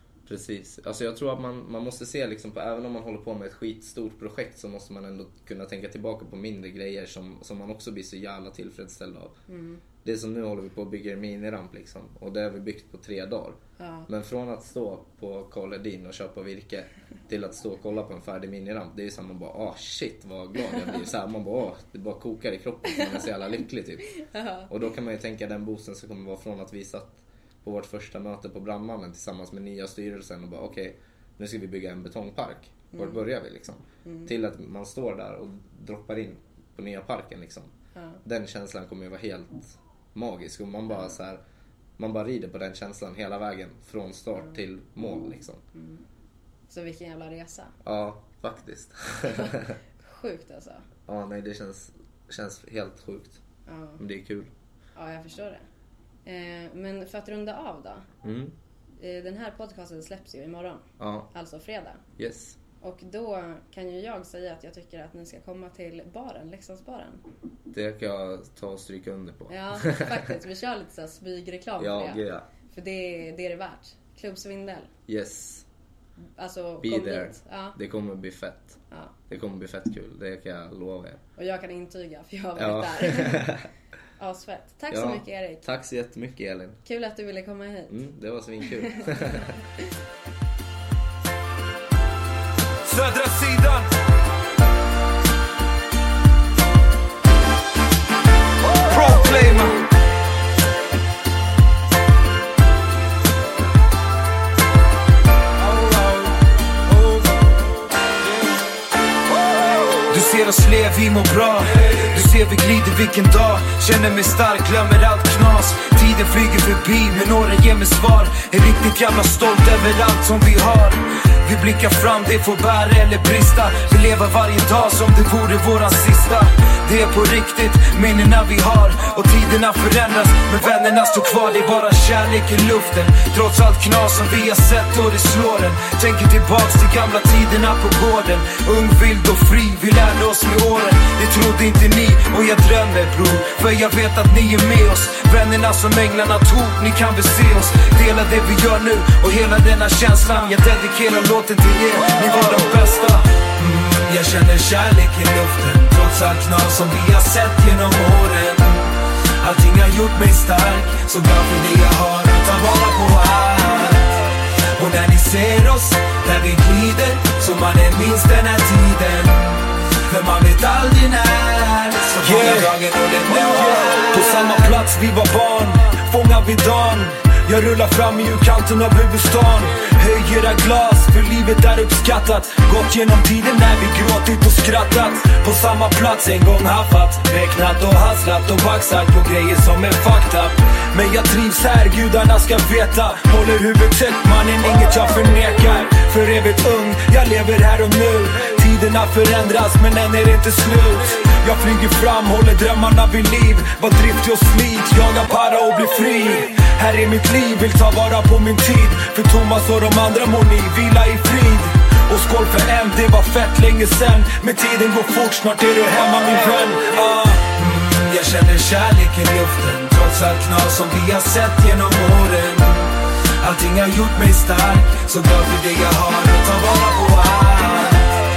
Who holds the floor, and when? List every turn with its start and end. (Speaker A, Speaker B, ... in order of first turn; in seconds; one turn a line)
Speaker A: 0.3-9.3
Speaker B: 9.5-9.8
Speaker A: 10.0-37.7
Speaker B: 13.8-14.1
Speaker B: 24.1-24.7
Speaker B: 32.9-33.2
Speaker B: 34.0-34.3
Speaker B: 37.9-38.2
Speaker A: 38.2-41.4
Speaker B: 40.9-41.2
Speaker A: 42.0-45.6
Speaker B: 45.7-46.0
Speaker B: 46.7-47.7
Speaker A: 47.8-49.8
Speaker B: 49.2-50.9
Speaker A: 51.0-53.4
Speaker B: 53.7-54.0
Speaker A: 54.0-54.5
Speaker B: 55.0-55.7
Speaker B: 56.2-58.1
Speaker A: 58.2-58.5
Speaker B: 59.0-62.0
Speaker A: 61.0-61.3
Speaker A: 62.2-62.6
Speaker B: 62.8-67.2
Speaker A: 67.7-70.3
Speaker B: 69.5-74.9
Speaker A: 71.8-72.5
Speaker A: 75.1-75.6
Speaker B: 76.4-77.8
Speaker A: 76.8-81.2
Speaker B: 81.4-83.6
Speaker A: 82.5-83.7
Speaker B: 84.2-85.7
Speaker A: 84.9-86.8
Speaker B: 86.8-88.0
Speaker A: 87.9-89.5
Speaker B: 88.6-89.5
Speaker C: 92.8-93.9
Speaker C: 98.8-99.8
Speaker C: 106.9-107.3
Speaker C: 110.1-164.2
Speaker C: 164.7-228.2